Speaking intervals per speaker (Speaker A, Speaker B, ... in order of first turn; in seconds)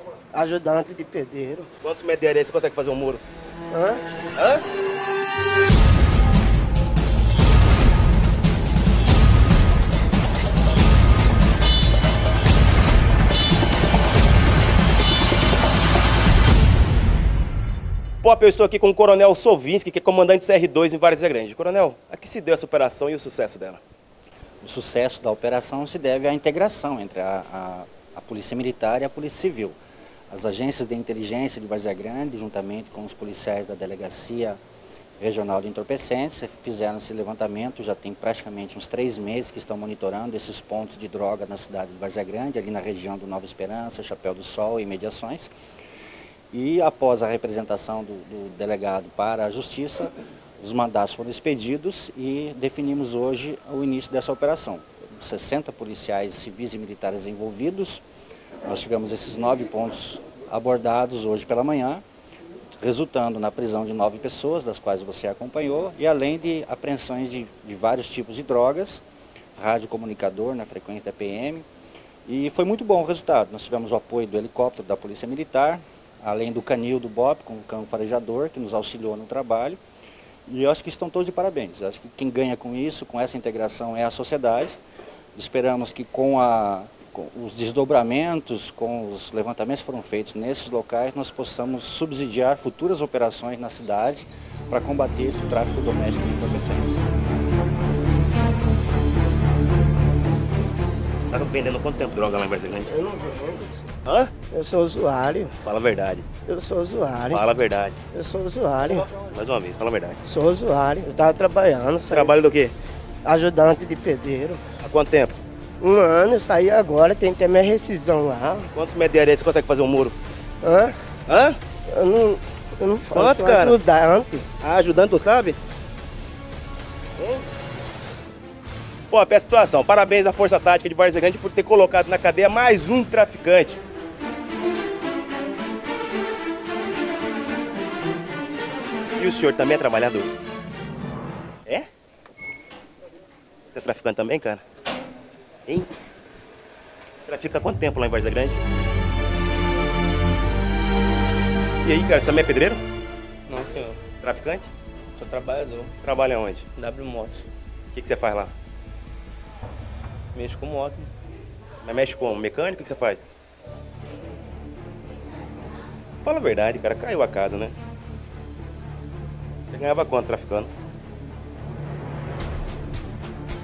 Speaker A: 0.3-1.7, 3.7-4.0, 102.8-103.9, 104.5-105.6, 106.5-107.4, 108.1-109.1, 110.2-112.4, 113.2-114.7, 115.8-118.7, 120.6-121.0, 121.9-124.5
Speaker B: 1.8-3.2, 4.4-4.6, 18.2-23.8, 101.3-102.9, 104.0-104.3, 105.6-106.3, 107.3-108.0, 109.1-110.2, 112.1-112.8, 114.8-115.3, 118.7-120.2, 121.3-121.6, 123.2-123.8, 124.6-125.6, 129.1-133.8, 139.2-140.3, 143.7-144.6, 147.3-148.6, 151.8-152.8, 154.2-154.7, 156.0-156.7, 157.9-158.5, 161.8-163.2, 166.2-167.8, 169.7-170.7
Speaker C: 24.6-29.8, 30.3-34.6, 35.2-45.5, 46.5-58.0, 58.6-62.0, 62.8-69.0, 69.6-71.7, 72.3-79.8, 80.5-84.8, 85.3-97.0
Speaker D: 153.5-154.0, 155.2-155.9, 156.8-157.5, 160.3-161.1